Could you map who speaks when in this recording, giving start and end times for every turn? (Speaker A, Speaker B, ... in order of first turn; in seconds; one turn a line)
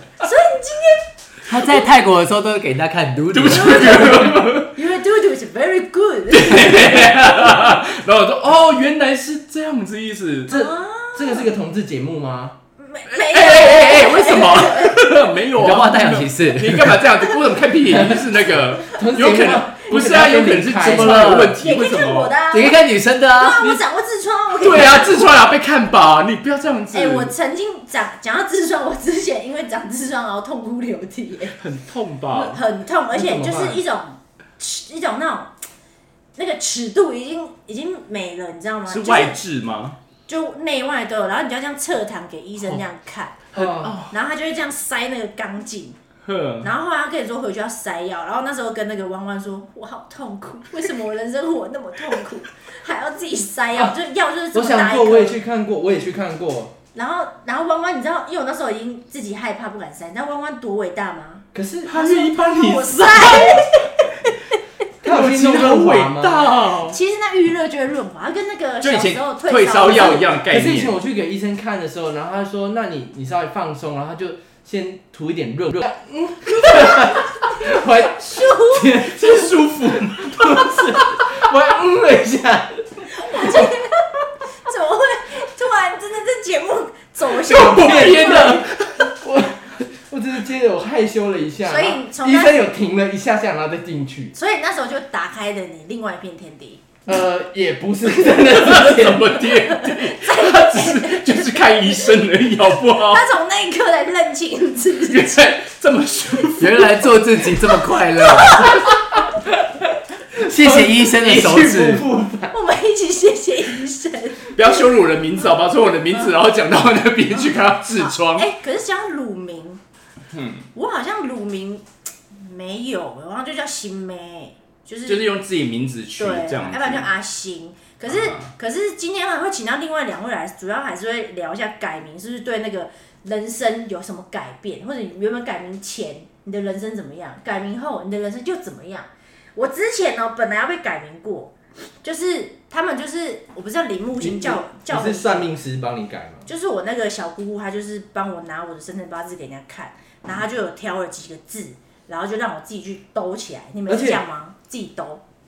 Speaker A: 0.2-1.1
Speaker B: 1.5-4.3
Speaker C: 3.3-4.7
Speaker A: 3.5-7.2
Speaker C: 6.3-10.5
Speaker A: 10.5-11.5
Speaker D: 10.5-12.6
Speaker A: 12.8-15.2
Speaker C: 13.1-22.4
Speaker B: 15.5-17.1
Speaker D: 18.9-21.4
Speaker B: 20.8-21.6
Speaker A: 21.4-25.3
Speaker B: 22.5-23.6
Speaker C: 24.6-27.3
Speaker A: 26.9-31.6
Speaker C: 31.5-32.6
Speaker A: 32.3-35.5
Speaker D: 33.1-33.8
Speaker A: 36.4-39.4
Speaker C: 38.9-40.0
Speaker A: 40.3-43.4
Speaker D: 43.5-44.0
Speaker C: 43.5-44.1
Speaker A: 44.1-46.0
Speaker C: 46.2-46.7
Speaker A: 46.6-55.4
Speaker D: 54.5-56.8
Speaker A: 56.9-64.6
Speaker D: 61.5-62.2
Speaker C: 61.9-63.7
Speaker D: 65.0-66.7
Speaker C: 65.0-67.0
Speaker A: 66.8-70.4
Speaker C: 68.8-71.0
Speaker D: 70.5-82.8
Speaker A: 76.6-77.3
Speaker A: 78.2-78.9
Speaker C: 79.0-81.1
Speaker A: 83.1-88.7
Speaker C: 87.3-89.1
Speaker D: 87.5-94.3
Speaker A: 91.7-92.7
Speaker A: 94.3-96.8
Speaker D: 97.0-99.5
Speaker C: 98.5-103.2
Speaker A: 99.6-101.9
Speaker A: 103.0-105.4
Speaker C: 105.0-106.8
Speaker B: 106.6-108.8
Speaker A: 108.2-108.9
Speaker B: 110.4-112.1
Speaker D: 110.4-112.5
Speaker A: 112.5-114.8
Speaker C: 114.5-118.5
Speaker A: 118.0-119.8
Speaker C: 120.3-120.7
Speaker A: 120.7-125.3
Speaker C: 125.1-127.1
Speaker A: 126.2-145.5
Speaker C: 128.1-128.5
Speaker D: 144.2-146.5
Speaker A: 146.5-155.2
Speaker D: 153.9-154.2